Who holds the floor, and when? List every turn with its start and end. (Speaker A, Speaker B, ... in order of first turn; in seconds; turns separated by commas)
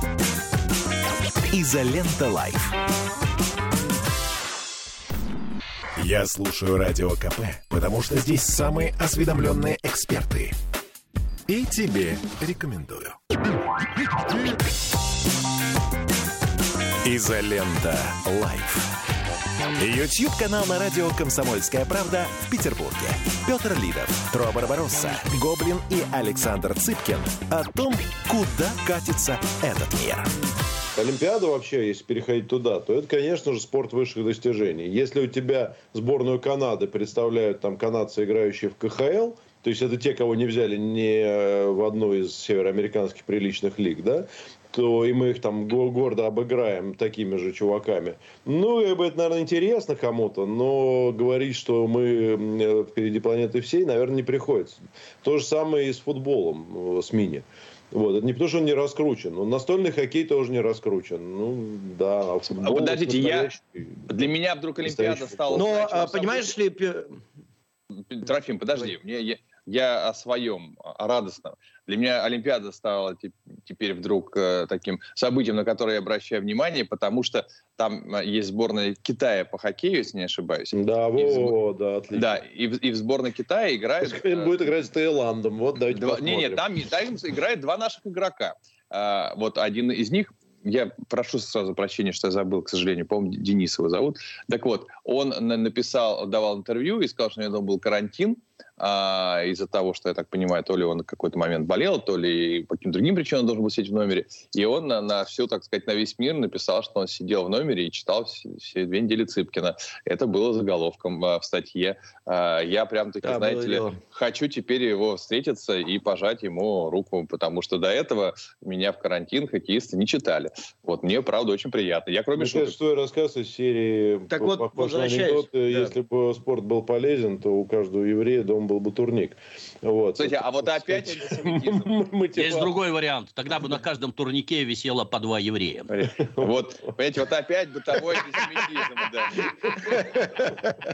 Speaker A: 1.5-2.7, Speaker A: 6.0-10.6, Speaker A: 11.5-13.2, Speaker A: 17.0-18.9, Speaker A: 19.8-30.3, Speaker B: 30.9-65.7, Speaker C: 62.6-63.5, Speaker C: 64.1-66.5, Speaker D: 65.5-67.2, Speaker C: 68.1-81.6, Speaker B: 80.7-82.4, Speaker C: 82.1-84.6, Speaker B: 84.0-86.7, Speaker C: 85.9-122.8, Speaker D: 113.2-114.0, Speaker B: 122.3-132.7, Speaker D: 124.3-125.9, Speaker C: 130.2-131.9, Speaker E: 132.3-135.9, Speaker C: 135.9-140.4, Speaker B: 136.1-136.9, Speaker B: 137.9-138.8, Speaker B: 139.4-140.5